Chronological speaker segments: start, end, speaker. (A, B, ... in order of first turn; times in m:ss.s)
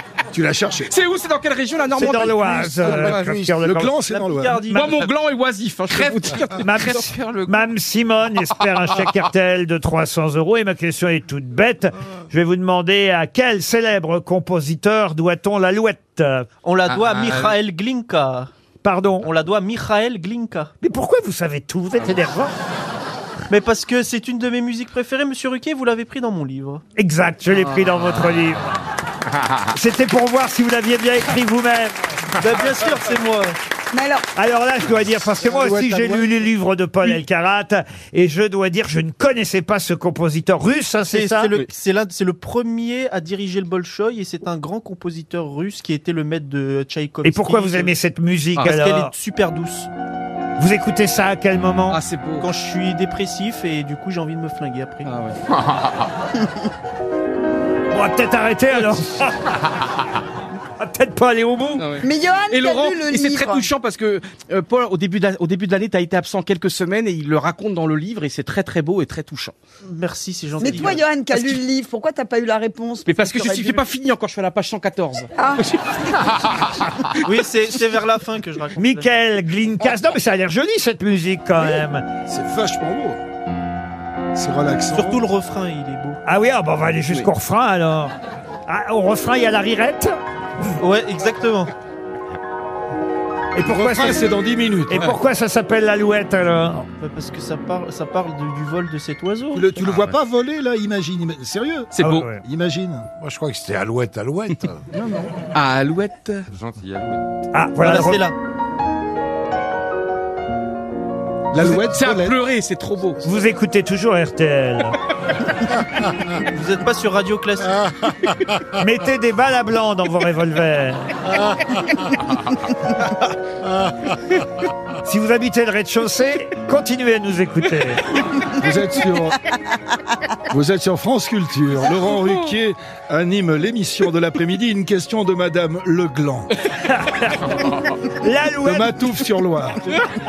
0:00.3-0:00.9 A
0:00.9-0:03.2 B
0:02.0-0:03.9 C
0:02.1-0:03.6 D
0:03.5-0:04.7 A
0:04.1-0:05.0 E
0:04.7-0:07.1 B
0:05.9-0:07.6 F
0:06.6-0:16.5 C
0:16.6-0:18.5 E
0:16.9-0:17.6 F
0:18.8-0:19.3 C
0:19.2-0:20.7 E
0:20.8-0:22.5 C
0:23.5-0:26.8 E
0:27.0-0:28.7 C
0:29.7-0:31.9 C
0:32.4-0:33.6 E
0:33.9-0:34.2 G
0:34.4-0:41.5 C
0:35.4-0:36.4 D
0:41.1-0:47.9 E
0:47.2-0:49.1 C
0:48.5-0:49.9 E
0:50.6-0:52.0 C
0:51.9-0:52.5 B
0:52.4-0:55.2 E
0:55.0-0:55.4 B
0:55.5-0:56.1 F
0:57.9-0:59.4 C
1:00.8-1:01.9 C
1:01.8-1:09.5 B
1:02.0-1:03.7 G
1:09.8-1:11.6 E
1:10.6-1:13.8 G
1:13.0-1:16.2 B
1:15.4-1:15.6 G
1:17.2-1:19.1 E
1:18.8-1:22.0 C
1:22.3-1:23.2 A
1:24.3-1:25.2 A
1:24.9-1:26.2 E
1:26.2-1:28.1 C
1:28.7-1:30.1 C
1:30.8-1:31.7 E
1:33.5-1:34.3 C
1:33.6-1:35.2 A
1:34.9-1:36.8 C
1:37.0-1:39.7 E
1:39.5-1:43.1 A
1:41.9-1:42.3 B
1:42.0-1:42.4 C
1:43.2-1:44.8 D
1:45.5-1:46.4 B
1:46.5-1:47.2 F
1:47.5-1:48.2 C
1:47.8-1:48.3 E
1:51.5-1:52.3 A
1:51.6-1:53.2 B
1:53.2-1:55.0 C
1:56.3-1:57.8 E
1:58.8-2:01.1 C
2:05.0-2:08.0 C
2:08.6-2:09.4 A
2:10.5-2:16.5 A
2:16.8-2:17.5 C
2:17.6-2:18.0 F
2:18.2-2:18.9 C
2:18.6-2:19.8 A